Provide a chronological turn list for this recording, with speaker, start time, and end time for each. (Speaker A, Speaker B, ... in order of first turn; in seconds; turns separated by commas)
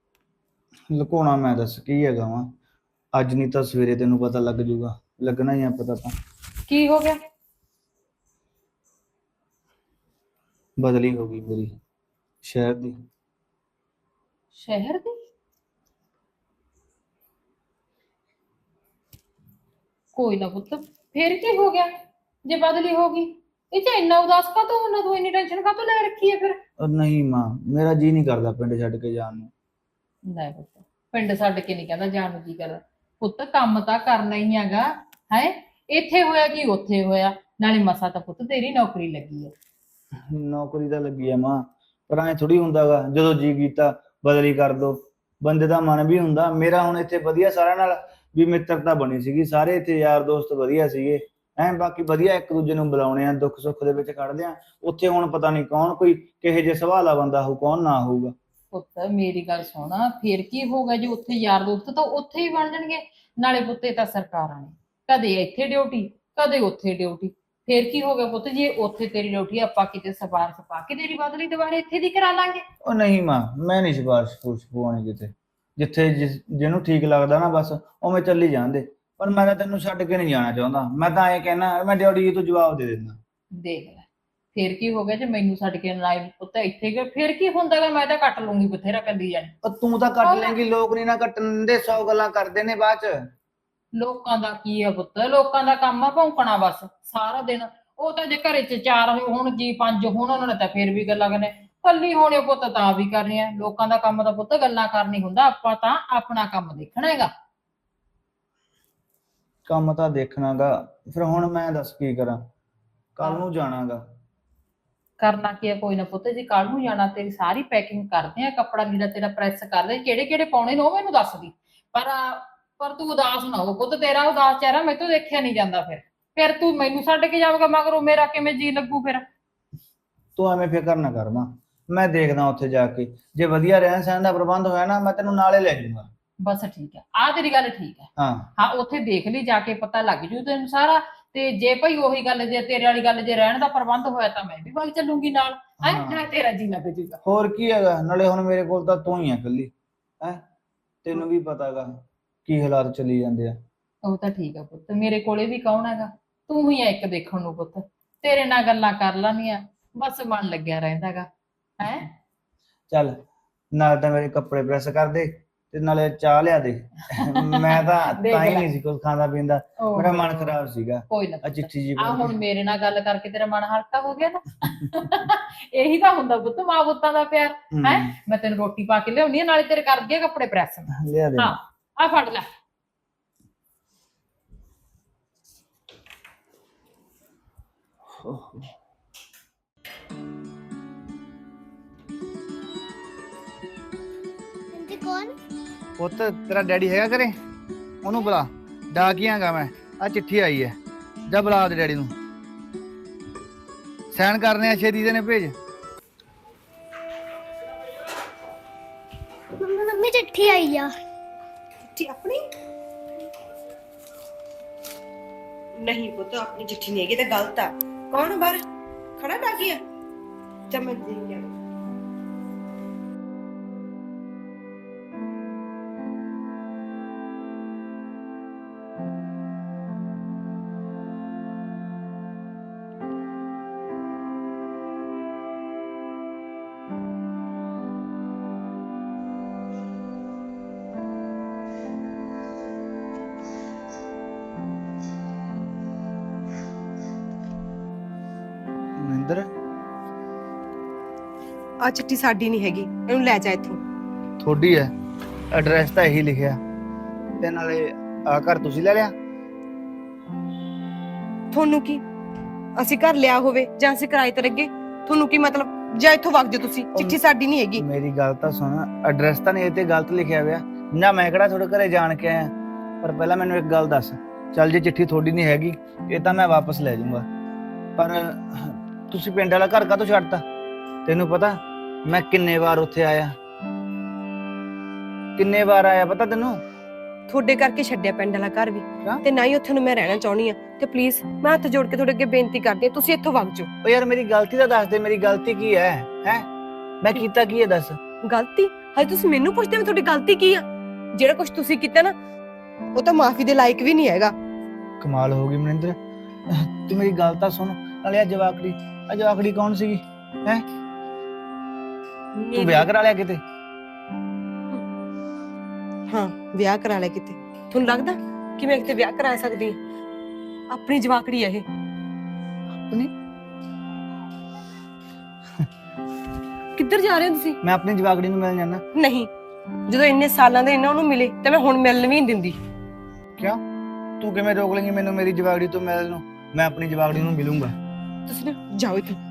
Speaker A: 0.9-2.5, Speaker A: 3.1-6.2, Speaker B: 6.7-7.2, Speaker A: 10.8-11.8, Speaker A: 12.4-13.0, Speaker B: 14.6-15.2, Speaker B: 20.1-21.9, Speaker B: 22.5-26.6, Speaker A: 26.8-29.5, Speaker B: 30.3-39.5, Speaker A: 40.3-58.4, Speaker B: 58.7-72.6, Speaker A: 72.8-83.2, Speaker B: 83.6-89.5, Speaker A: 89.6-93.3, Speaker B: 90.2-90.6, Speaker B: 94.0-107.3, Speaker A: 109.7-112.4, Speaker A: 113.2-114.0, Speaker B: 115.2-129.2, Speaker A: 130.4-136.1, Speaker B: 136.4-147.2, Speaker A: 138.2-138.5, Speaker A: 145.8-146.2, Speaker A: 147.2-150.4, Speaker A: 151.0-153.6, Speaker B: 154.0-161.3, Speaker B: 161.8-162.1, Speaker A: 162.9-163.2, Speaker A: 163.7-172.3, Speaker B: 167.2-168.7, Speaker B: 169.8-170.6, Speaker B: 171.1-182.5, Speaker A: 177.7-178.1, Speaker A: 180.9-181.6, Speaker A: 188.1-188.7, Speaker C: 194.7-195.3, Speaker A: 196.0-197.4, Speaker A: 198.0-200.8, Speaker A: 201.3-202.1, Speaker A: 204.1-205.6, Speaker C: 209.6-210.9, Speaker D: 212.0-212.4, Speaker D: 215.8-218.6, Speaker D: 219.2-219.8, Speaker D: 220.7-221.5, Speaker A: 249.0-249.5, Speaker D: 251.8-253.8, Speaker A: 254.4-254.9, Speaker A: 255.5-256.6, Speaker A: 257.4-259.1, Speaker D: 261.5-262.0, Speaker D: 262.8-267.9, Speaker A: 267.8-277.3, Speaker A: 278.0-280.4, Speaker A: 281.1-283.4, Speaker A: 285.4-286.6, Speaker D: 287.3-293.7, Speaker A: 293.8-296.5, Speaker A: 297.0-298.0, Speaker D: 298.3-302.1, Speaker D: 302.9-304.3, Speaker A: 305.0-306.0, Speaker A: 306.5-310.6, Speaker D: 312.4-312.9, Speaker A: 312.5-313.4, Speaker D: 316.1-319.8, Speaker D: 320.7-321.6, Speaker A: 322.9-323.1, Speaker D: 326.8-327.6, Speaker A: 327.6-328.8, Speaker D: 329.0-329.3, Speaker D: 329.9-332.6, Speaker A: 333.4-333.6, Speaker A: 334.2-337.8, Speaker D: 338.3-339.2